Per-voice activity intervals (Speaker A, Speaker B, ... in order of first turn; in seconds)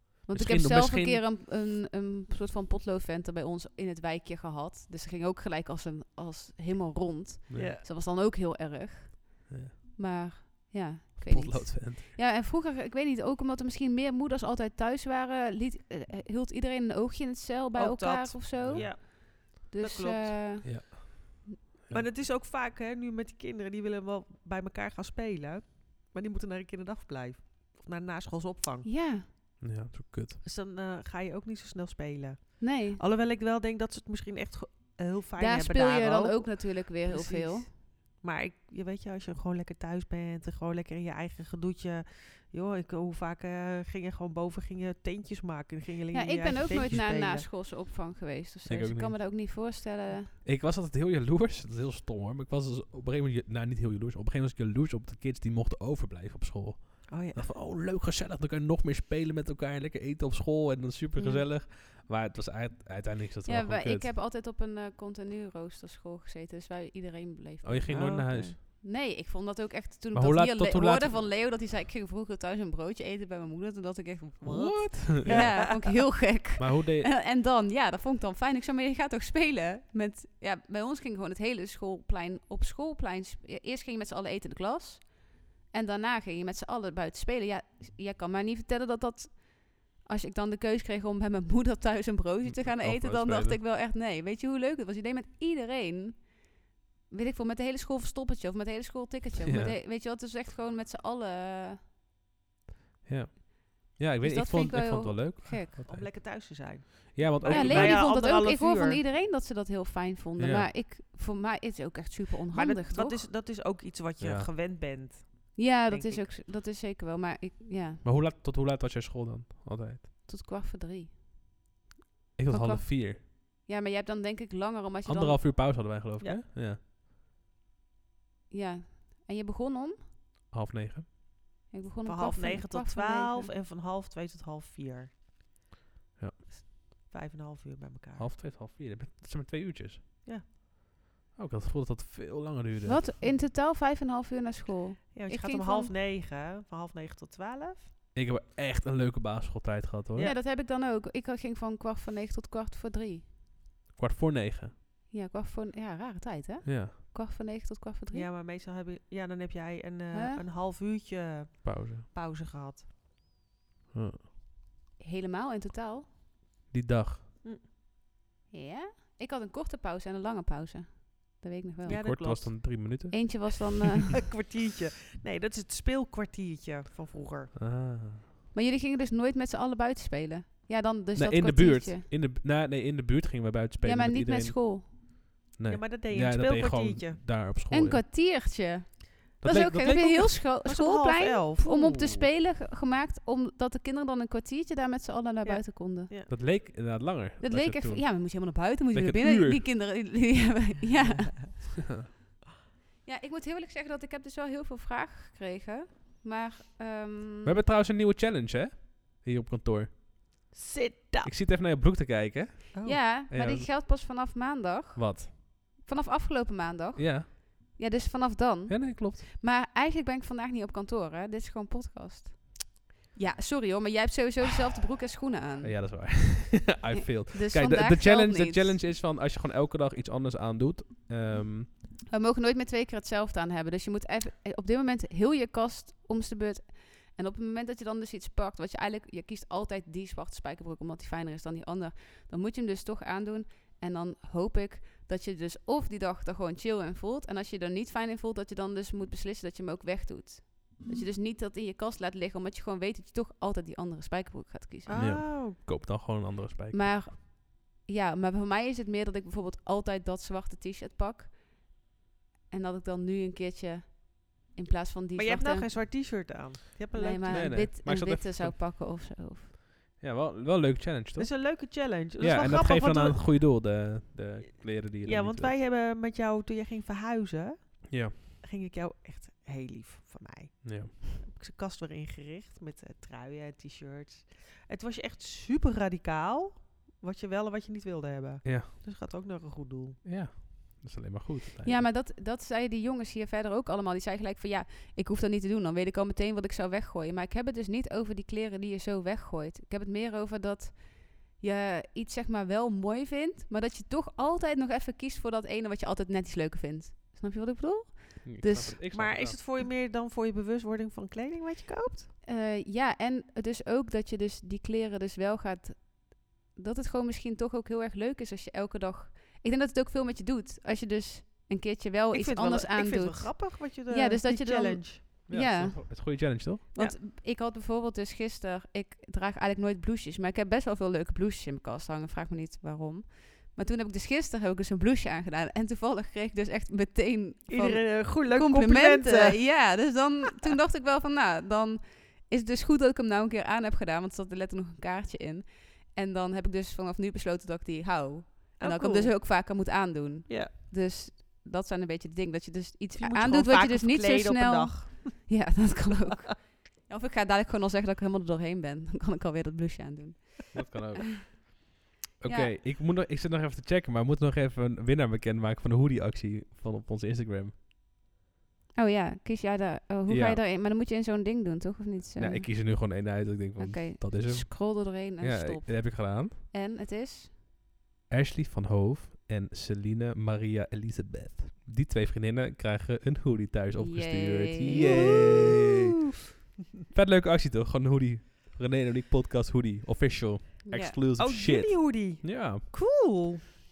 Speaker A: 0.3-21.0, 28.8-29.3, 32.6-33.0, 35.4-37.7, 46.1-50.3, 61.2-61.4, 63.5-101.8, 104.2-105.8, 107.5-113.3, 115.5-118.0, 120.3-121.2, 122.5-125.4, 128.5-130.1, 131.7-133.5, 142.8-145.9, 150.2-153.3, 155.1-158.3, 160.1-160.4, 165.0-166.1, 168.5-174.1, 178.5-182.1, 183.8-184.9, 187.7-196.1, 197.4-201.7, 203.0-207.6, 212.8-225.8, 226.9-228.8, 232.1-255.0, 256.7-261.8, 262.5-265.8, 266.9-269.5, 291.6-308.7, 312.2-361.2, 362.2-362.5, 368.7-373.0, 373.6-377.3, 383.8-385.3, 390.6-391.0
Speaker B: 0.3-1.2, 7.5-7.8, 9.5-9.7, 11.2-12.1, 18.6-18.9, 20.6-22.1, 29.6-30.4, 48.6-49.2, 50.3-64.1, 67.6-68.6, 70.1-71.2, 74.4-75.8, 76.5-77.1, 92.4-93.6, 99.5-99.7, 103.0-106.1, 107.1-108.0, 110.4-110.7, 114.2-114.5, 118.0-120.1, 122.4-123.2, 125.0-126.8, 130.5-131.1, 138.2-140.0, 141.3-143.1, 148.1-150.3, 153.9-154.7, 156.6-156.9, 161.6-162.1, 163.9-164.2, 166.7-167.2, 171.9-173.8, 177.5-178.3, 181.1-188.0, 189.4-190.4, 196.3-199.6, 207.4-210.0, 211.2-213.7, 214.9-215.3, 216.9-217.3, 218.7-219.2, 225.6-231.7, 254.9-257.0, 267.3-268.6, 269.9-275.6, 277.9-278.1, 280.6-280.9, 288.4-288.7, 290.0-291.9, 308.2-309.4, 325.3-326.6, 360.5-367.5, 370.1-370.4, 372.2-376.4, 378.1-385.9, 386.9-392.6
Speaker C: 7.5-7.8, 17.7-20.6, 21.9-28.9, 30.4-47.5, 57.1-57.4, 67.9-68.6, 75.2-75.6, 105.8-109.0, 112.5-116.3, 132.1-135.1, 136.5-138.3, 145.1-147.9, 158.1-162.8, 171.8-172.6, 174.1-177.5, 185.7-187.2, 190.6-192.2, 195.4-196.3, 201.0-201.3, 210.5-211.3, 212.7-213.0, 254.8-255.6, 265.2-267.7, 271.1-273.2, 275.0-290.0, 308.9-312.1, 322.1-325.0, 337.5-339.5, 348.6-349.2, 353.0-355.4, 384.7-385.7, 391.2-393.4